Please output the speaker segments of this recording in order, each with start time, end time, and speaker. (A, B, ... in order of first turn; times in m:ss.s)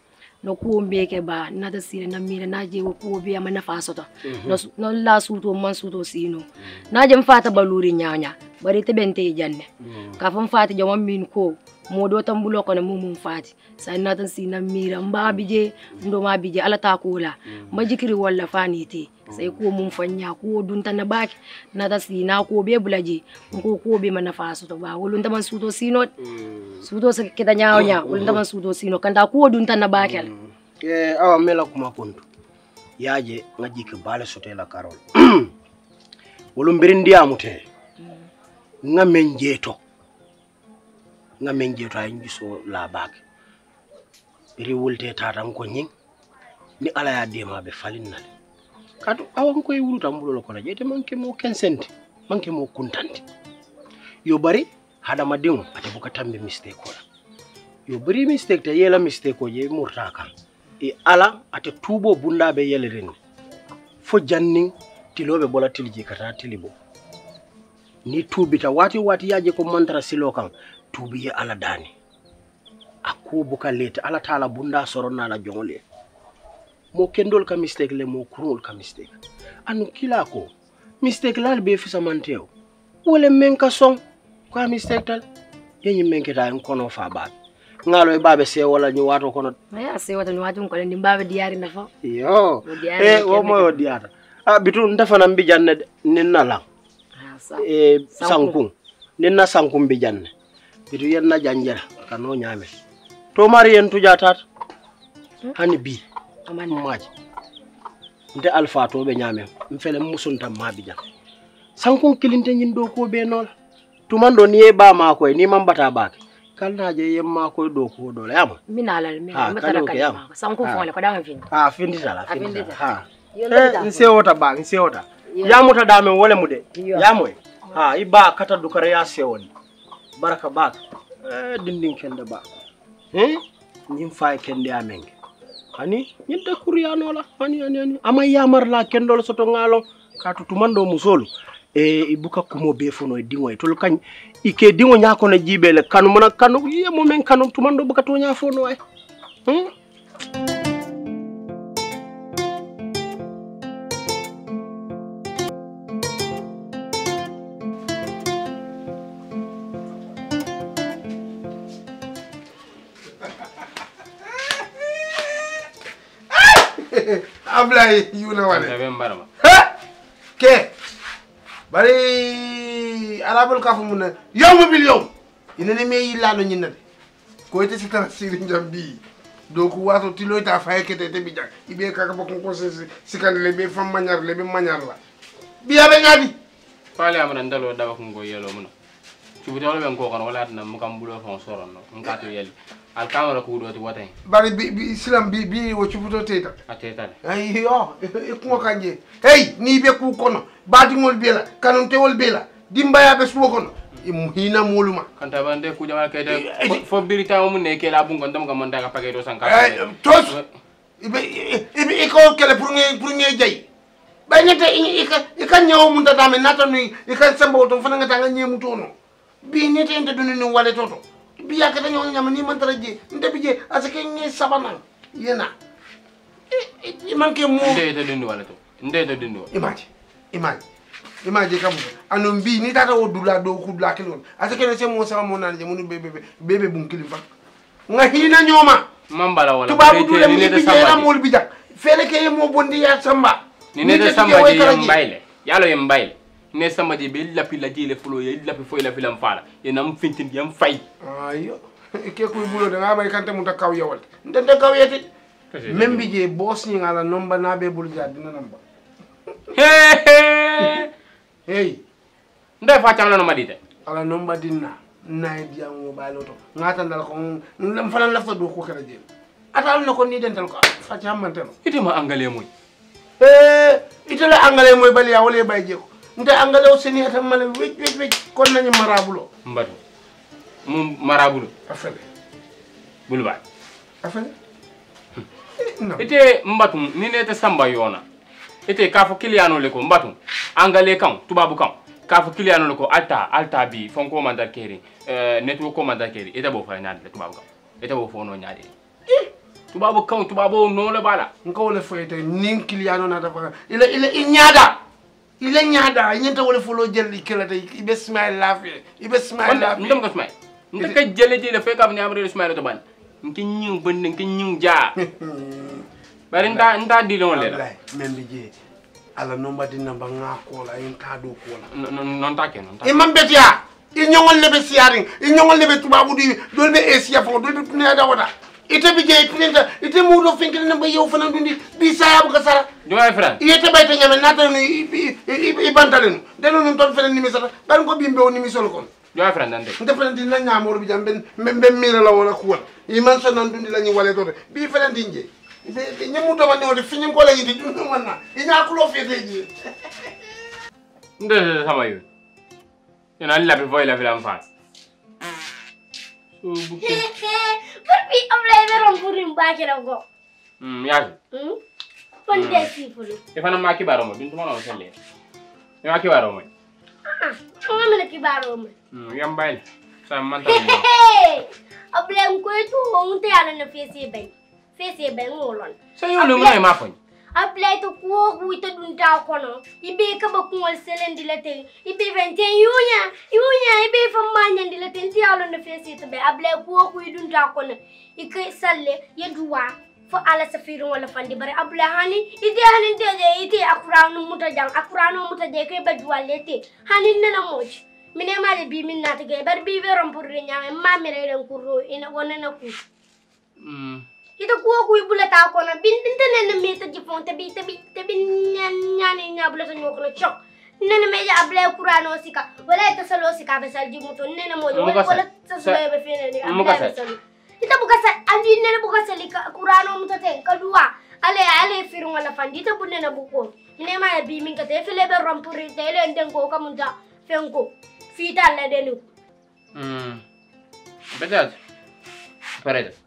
0:00.4-0:26.1 A
0:04.2-0:04.6 B
0:09.8-0:10.2 B
0:26.8-0:30.3 A
0:27.7-0:28.4 B
0:30.0-0:32.2 B
0:33.0-0:35.5 B
0:36.6-0:37.6 B
0:38.8-0:39.8 B
0:41.4-0:43.2 B
0:44.6-0:45.9 B
0:46.8-0:48.3 B
0:49.0-0:53.2 B
0:54.3-0:57.0 B
0:57.9-1:00.3 B
1:00.8-1:03.2 B
1:04.0-1:06.7 B
1:08.1-1:11.9 B
1:13.0-1:15.8 B
1:16.9-1:20.5 B
1:21.0-1:22.5 B
1:23.0-1:24.0 B
1:24.5-1:25.2 B
1:25.8-1:27.3 B
1:27.9-1:29.6 B
1:29.7-1:31.9 A
1:32.0-1:36.6 B
1:32.6-1:33.8 A
1:37.2-1:38.6 A
1:37.6-1:40.3 B
1:40.9-1:42.7 B
1:43.4-1:44.4 B
1:45.6-1:46.0 B
1:46.5-1:46.8 A
1:46.7-1:47.1 B
1:48.3-1:51.0 B
1:51.8-1:53.5 B
1:54.1-1:58.6 B
1:58.7-2:01.5 A
1:59.3-2:00.8 B
2:01.5-2:09.5 B
2:02.3-2:02.8 A
2:03.3-2:04.1 A
2:05.3-2:05.6 A
2:06.7-2:07.1 A
2:10.2-2:12.4 B
2:13.1-2:15.1 B
2:15.8-2:28.8 B
2:29.5-2:29.7 B
2:46.3-2:48.8 C
2:48.5-2:49.3 D
2:49.4-2:49.7 C
2:50.4-2:50.7 C
2:51.7-2:56.8 C
2:57.5-2:59.0 C
2:59.5-3:05.0 C
3:05.6-3:06.3 C
3:07.0-3:08.7 D
3:09.4-3:14.1 D
3:14.2-3:16.6 C
3:16.7-3:17.2 D
3:17.2-3:25.1 C
3:25.2-3:30.5 D
3:26.3-3:26.9 C
3:29.4-3:30.4 C
3:31.0-3:33.6 C
3:34.3-3:38.9 C
3:39.4-3:45.5 C
3:46.5-3:47.8 C
3:47.6-3:49.5 D
3:49.5-3:50.6 C
3:51.2-3:57.3 C
3:57.9-3:58.8 C
3:59.1-4:01.1 D
3:59.7-4:05.0 C
4:03.8-4:10.8 D
4:11.0-4:15.1 C
4:15.5-4:16.1 D
4:15.7-4:18.6 C
4:19.6-4:20.9 D
4:21.5-4:21.8 C
4:22.6-4:23.6 D
4:23.9-4:31.5 C
4:31.6-4:32.5 D
4:33.2-4:39.3 C
4:39.4-4:39.8 D
4:40.7-4:41.5 D
4:41.7-4:42.0 C
4:43.1-4:43.4 D
4:44.0-4:44.3 C
4:45.6-4:46.1 C
4:46.0-4:48.0 D
4:48.7-4:58.7 D
4:59.7-5:01.3 D
5:01.4-5:04.8 C
5:05.4-5:10.0 C
5:09.4-5:15.0 D
5:15.0-5:16.7 C
5:16.3-5:17.6 D
5:17.3-5:18.5 C
5:19.2-5:21.7 C
5:21.7-5:23.0 D
5:22.8-5:32.7 C
5:32.8-5:33.4 D
5:33.4-5:38.9 C
5:39.1-5:39.8 D
5:39.8-5:49.5 C
5:51.2-5:52.0 D
5:53.2-5:54.4 D
5:56.4-5:57.0 D
5:56.8-6:00.0 E
6:00.6-6:01.2 D
6:01.3-6:01.6 E
6:02.3-6:03.2 E
6:02.3-6:02.7 D
6:03.4-6:05.0 D
6:05.8-6:06.5 D
6:07.1-6:08.7 E
6:08.9-6:10.8 D
6:10.5-6:16.6 E
6:16.0-6:17.0 D
6:17.4-6:42.8 E
6:43.6-6:44.0 D
6:44.4-7:09.0 E
6:54.7-6:55.8 D
6:56.4-6:56.9 D
7:09.8-7:10.2 D
7:11.1-7:11.6 D
7:12.6-7:13.0 D